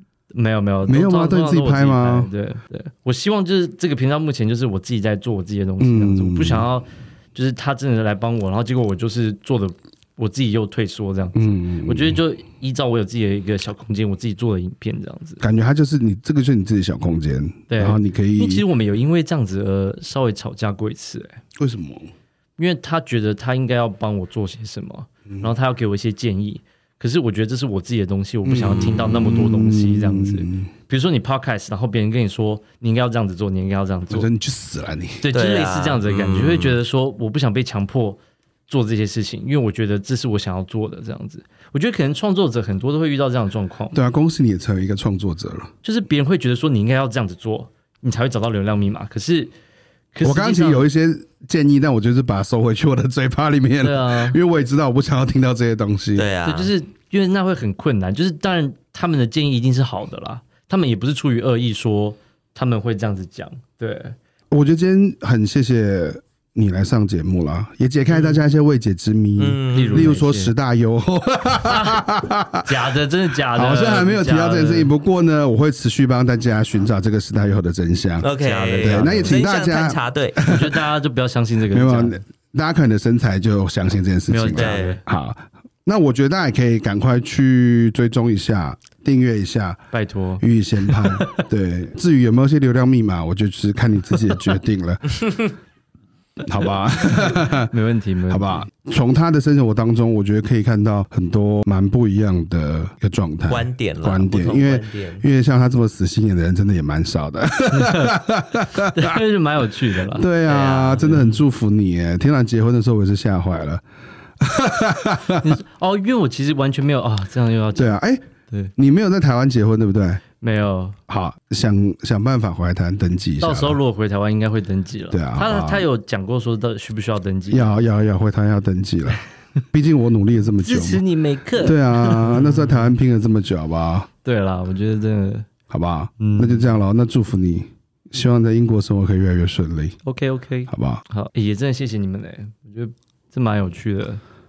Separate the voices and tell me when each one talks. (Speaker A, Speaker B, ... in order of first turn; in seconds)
Speaker A: 0.3-15.4, 17.7-21.4, 22.6-34.3, 35.2-44.0, 45.8-49.5, 50.1-50.9, 53.8-54.4, 56.5-64.2, 68.1-68.4, 69.7-70.5, 71.7-72.0, 72.6-74.9, 78.4-79.4, 80.4-82.2, 84.3-85.0, 89.9-91.4, 97.2-98.7, 107.7-108.2, 108.8-110.3, 115.4-118.0, 120.4-121.0, 123.4-127.8, 130.6-132.8, 134.2-135.5, 136.2-136.8, 140.0-144.2
Speaker B: 0.9-2.3, 5.8-6.7, 11.3-12.2, 15.4-18.6, 21.6-22.1, 28.4-30.7, 34.1-35.3, 43.9-45.7, 50.2-56.3, 64.5-72.7, 73.5-78.3, 78.8-80.8, 81.7-89.8, 90.4-95.2, 96.4-97.7, 98.3-109.2, 110.1-113.8, 114.4-115.6, 117.8-118.2, 118.8-120.2, 121.1-123.8, 125.1-125.8, 127.5-129.2, 129.7-131.0, 131.6-134.1, 135.7-140.0, 140.7-141.0
Speaker C: 35.3-36.8, 56.1-56.7, 69.4-70.1, 78.2-80.5, 84.5-85.0, 103.5-105.2, 110.5-111.3